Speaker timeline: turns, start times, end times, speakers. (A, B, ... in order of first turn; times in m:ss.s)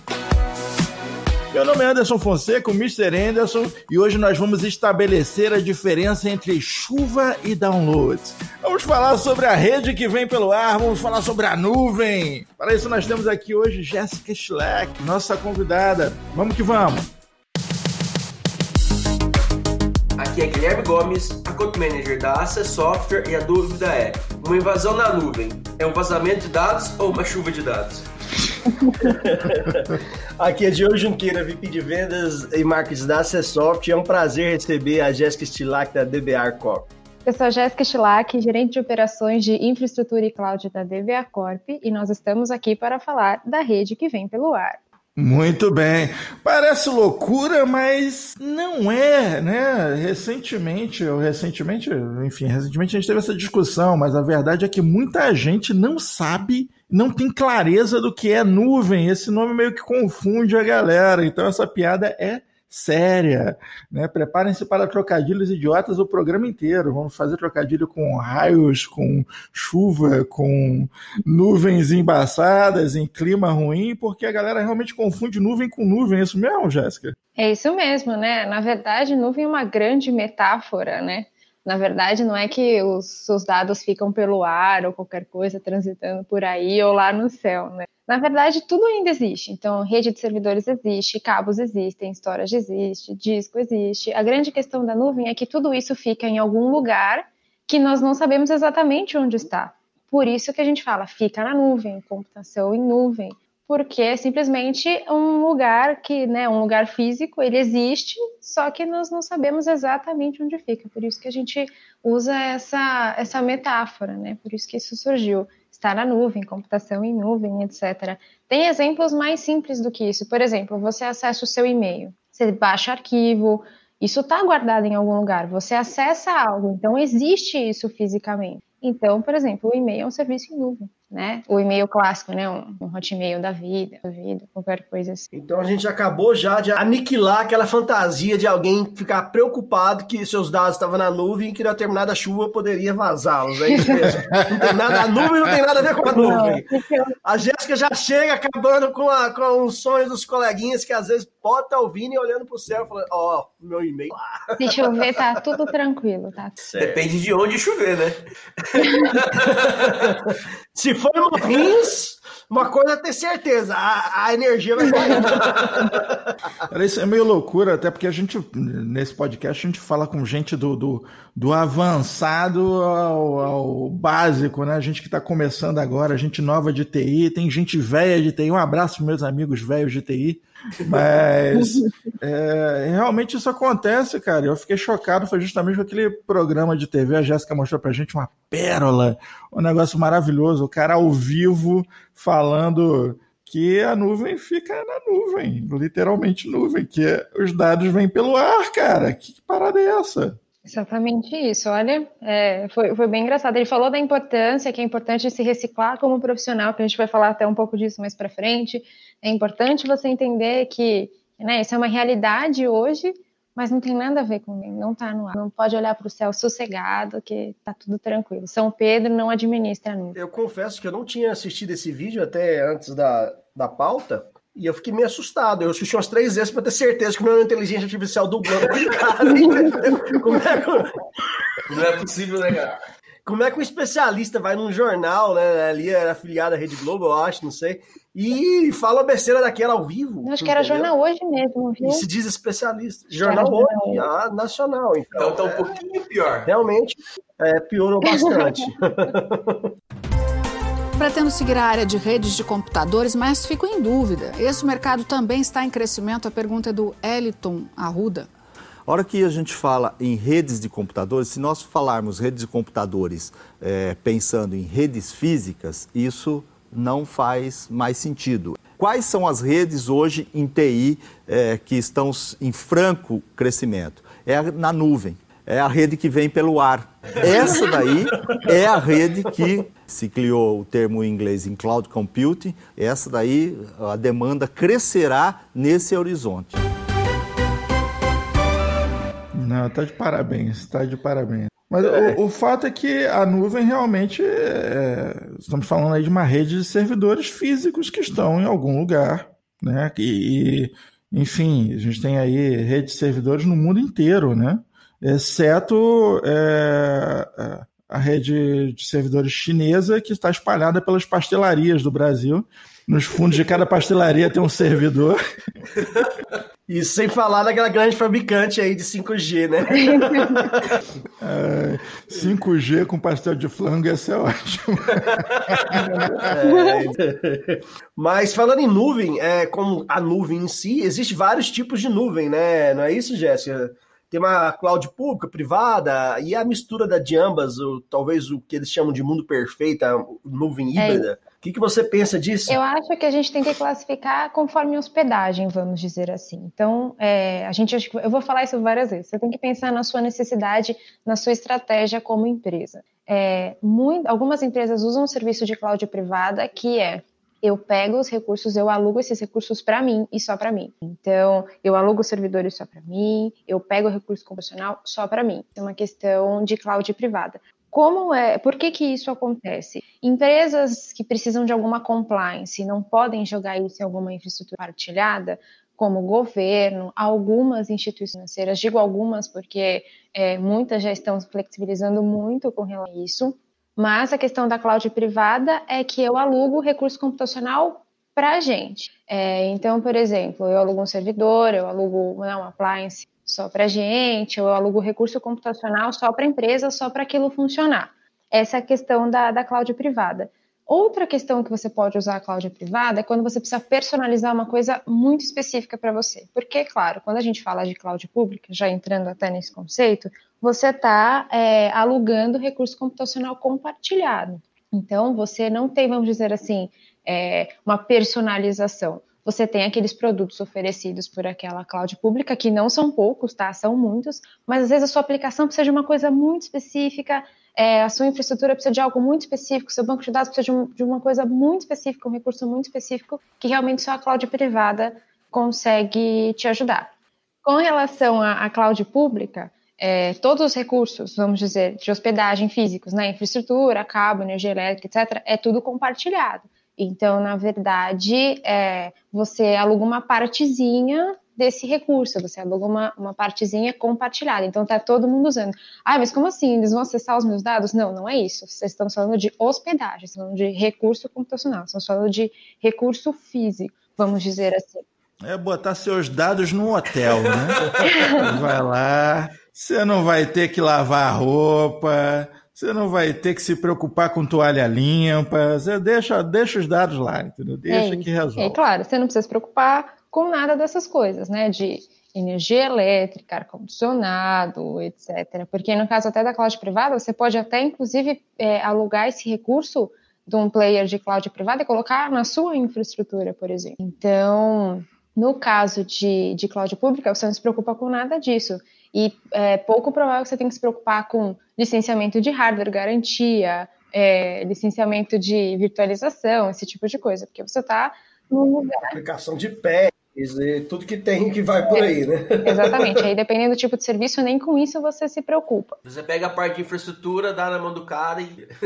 0:01.5-0:17.1 A
0:20.2-0:28.1 B
0:29.0-0:36.9 C
0:37.3-0:44.8 D
0:45.2-1:17.2 A
1:17.4-2:15.3 D
2:15.3-2:35.0 C
2:26.0-2:27.2 D
2:34.6-2:36.6 D
2:36.6-2:37.0 C
2:36.8-2:39.6 B
2:39.3-2:46.2 C
2:45.2-2:45.7 B
2:46.7-3:20.4 A
3:01.6-3:01.9 D
3:20.6-3:40.2 D
3:40.2-3:51.0 C
3:49.4-3:49.8 D
3:51.7-3:52.8 B
3:53.3-4:00.9 C
4:00.2-4:02.1 D
4:01.8-4:05.7 C
4:03.2-4:04.1 D
4:05.2-4:06.5 B
4:06.5-4:09.7 C
4:11.0-4:18.3 E
4:18.9-4:46.6 F
4:37.2-4:38.5 C
4:49.3-5:15.2 A
4:51.9-4:52.2 C
5:16.7-5:20.9 C
5:19.8-5:20.5 D
5:21.2-5:26.3 A
5:25.8-5:26.8 D
5:26.2-5:42.6 C
5:40.8-5:41.1 D
5:42.5-7:16.9 D
7:17.4-7:44.8 D
7:45.2-7:58.6 A
7:47.2-7:47.6 B
7:47.9-7:48.2 D
7:57.7-8:29.0 D
8:28.9-8:33.0 C
8:32.4-8:35.8 D
8:35.9-8:38.5 B